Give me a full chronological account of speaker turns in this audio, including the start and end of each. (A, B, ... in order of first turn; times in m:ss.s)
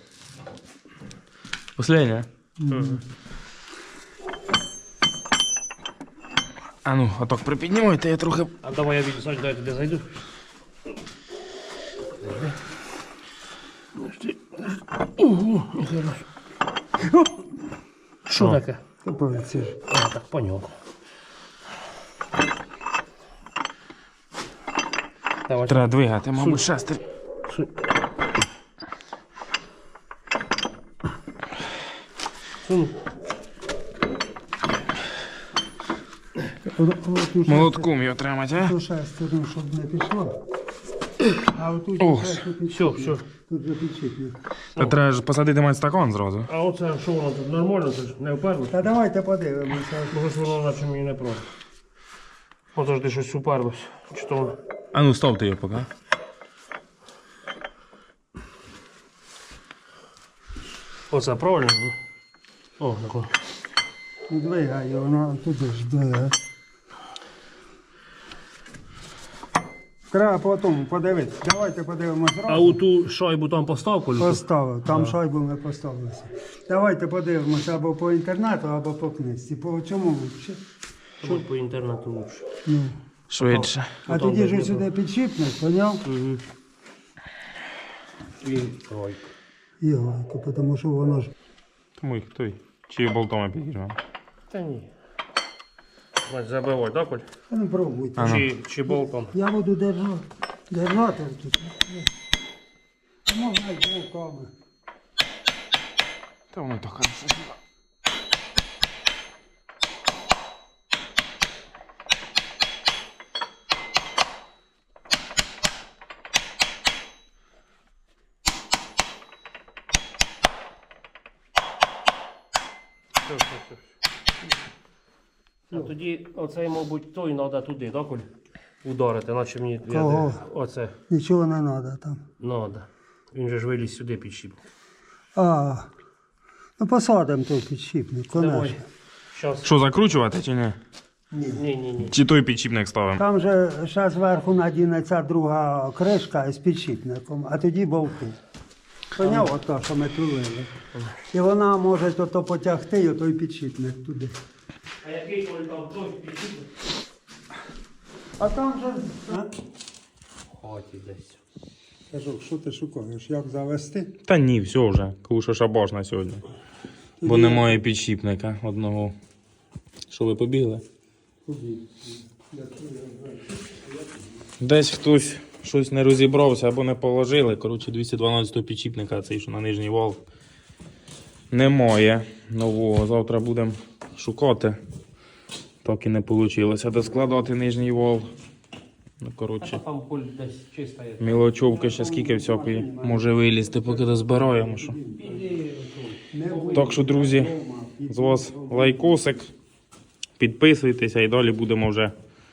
0:01.8-0:02.3 A
0:02.6-0:03.0 B
0:02.7-0:03.0 C
0:06.8-0:08.5 A
0:08.6-0:10.2 C
0:12.2-0:12.6 C
0:14.0-0:16.3 C
0:18.2-0:18.8 C
0:19.0-0:19.8 B
0:19.9-0:20.8 C
0:25.5-0:26.7 C
0:25.6-0:27.0 A
0:27.5-0:27.8 C
0:32.6-0:33.0 C
0:36.6-0:37.9 B
0:37.4-0:38.7 A
0:38.5-0:40.4 B
0:41.3-0:44.4 B
0:42.0-0:42.4 A
0:42.7-0:43.2 C
0:44.8-0:46.5 A
0:46.5-0:48.9 C
0:48.7-0:50.2 B
0:50.1-0:51.5 C
0:52.7-0:54.6 C
0:54.9-0:55.9 A
1:01.1-1:02.0 C
1:02.8-1:03.3 C
1:04.3-1:06.4 B
1:10.1-1:12.8 B
1:12.5-1:15.2 C
1:14.2-1:20.6 B
1:21.2-1:22.5 C
1:22.6-1:23.0 B
1:23.3-1:23.9 A
1:23.4-1:24.8 C
1:24.0-1:26.0 B
1:26.0-1:26.4 C
1:28.4-1:29.3 C
1:29.8-1:31.3 B
1:32.0-1:34.0 A
1:34.5-1:34.9 C
1:36.2-1:37.3 C
1:37.5-1:38.4 B
1:38.2-1:38.5 A
1:38.2-1:39.3 C
1:39.3-1:42.1 B
1:43.2-1:44.5 B
1:46.5-1:47.6 A
2:03.2-2:03.8 C
2:05.7-2:08.3 C
2:08.8-2:11.0 C
2:09.9-2:10.4 B
2:11.1-2:12.2 B
2:12.4-2:14.6 C
2:15.3-2:15.9 B
2:16.8-2:18.8 B
2:18.3-2:19.7 C
2:19.6-2:20.8 A
2:21.3-2:21.6 B
2:21.6-2:22.1 C
2:22.1-2:23.2 A
2:23.2-2:28.4 B
2:29.1-2:30.7 B
2:29.2-2:29.5 C
2:31.3-2:34.4 B
2:35.0-2:36.7 C
2:38.4-2:39.5 B
2:40.5-2:41.4 C
2:42.1-2:44.1 B
2:44.3-2:46.4 A
2:47.2-2:47.8 B
2:47.2-2:49.1 A
2:50.1-2:50.8 A
2:51.4-2:54.2 B
2:54.6-3:00.2 A
3:01.5-3:04.8 A
3:05.8-3:08.3 A
3:09.2-3:09.8 A
3:09.6-3:11.5 C
3:11.2-3:15.0 A
3:11.6-3:15.5 B
3:15.1-3:17.0 C
3:16.3-3:19.4 B
3:16.7-3:17.5 A
3:18.1-3:19.5 A
3:20.4-3:22.1 A